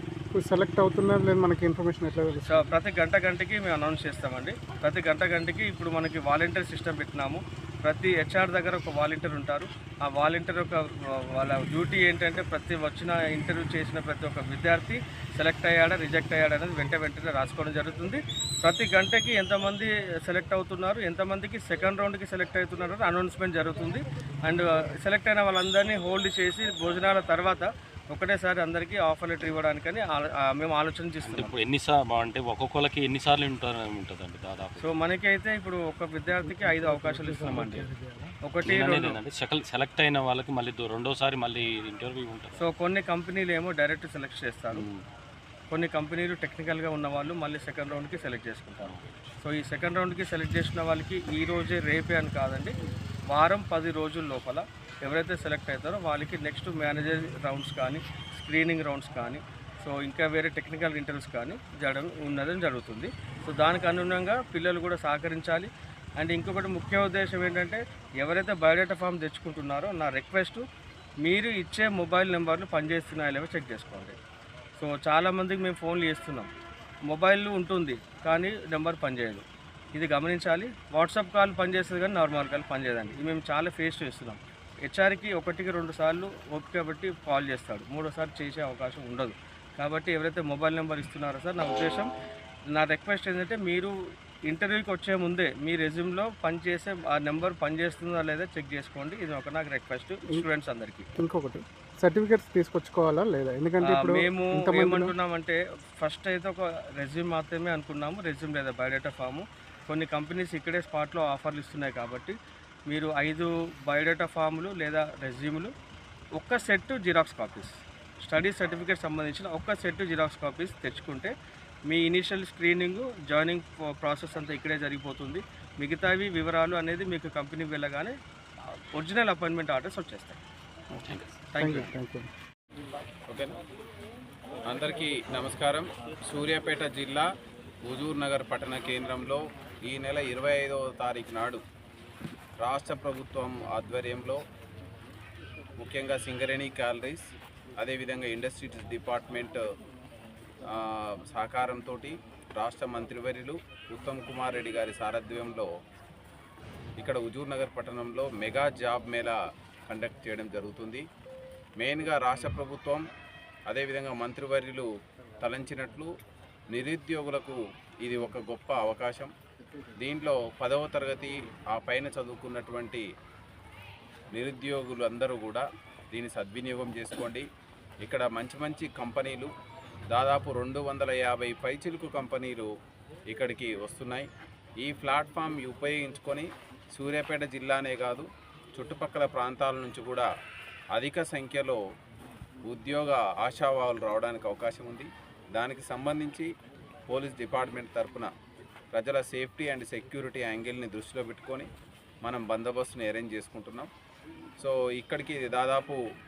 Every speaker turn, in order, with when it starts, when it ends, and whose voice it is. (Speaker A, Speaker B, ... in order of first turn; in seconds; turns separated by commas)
Speaker A: 0.3-2.7, Speaker B: 2.5-31.5, Speaker C: 31.2-34.9, Speaker B: 34.8-37.9, Speaker A: 36.3-38.3, Speaker B: 38.5-39.2, Speaker C: 38.7-42.6, Speaker B: 42.6-44.9, Speaker C: 44.7-45.0, Speaker B: 45.7-52.8, Speaker B: 53.3-70.7, Speaker B: 71.2-74.2, Speaker B: 74.8-76.5, Speaker B: 77.1-92.1, Speaker B: 92.7-94.0, Speaker B: 94.5-101.1, Speaker A: 101.2-105.1, Speaker B: 103.8-112.4, Speaker B: 112.9-115.7, Speaker B: 116.4-121.3, Speaker B: 121.9-128.2, Speaker B: 128.9-130.4, Speaker C: 131.0-131.8, Speaker B: 131.5-131.9, Speaker A: 131.6-132.3, Speaker D: 133.3-133.5, Speaker D: 134.7-137.3, Speaker D: 137.9-141.6, Speaker D: 142.6-144.4, Speaker D: 145.8-149.6, Speaker D: 150.7-155.7, Speaker D: 157.0-159.4, Speaker D: 159.9-161.1, Speaker D: 161.8-163.1, Speaker D: 163.7-164.9, Speaker D: 165.4-166.1, Speaker D: 166.7-169.3, Speaker D: 170.0-173.1, Speaker D: 174.3-177.5, Speaker D: 178.0-179.5, Speaker D: 180.1-182.7, Speaker D: 183.3-184.3, Speaker D: 184.8-190.3, Speaker D: 190.9-191.8, Speaker D: 192.7-196.5, Speaker D: 197.1-198.3, Speaker D: 198.9-201.7, Speaker D: 202.2-203.9, Speaker D: 204.6-206.0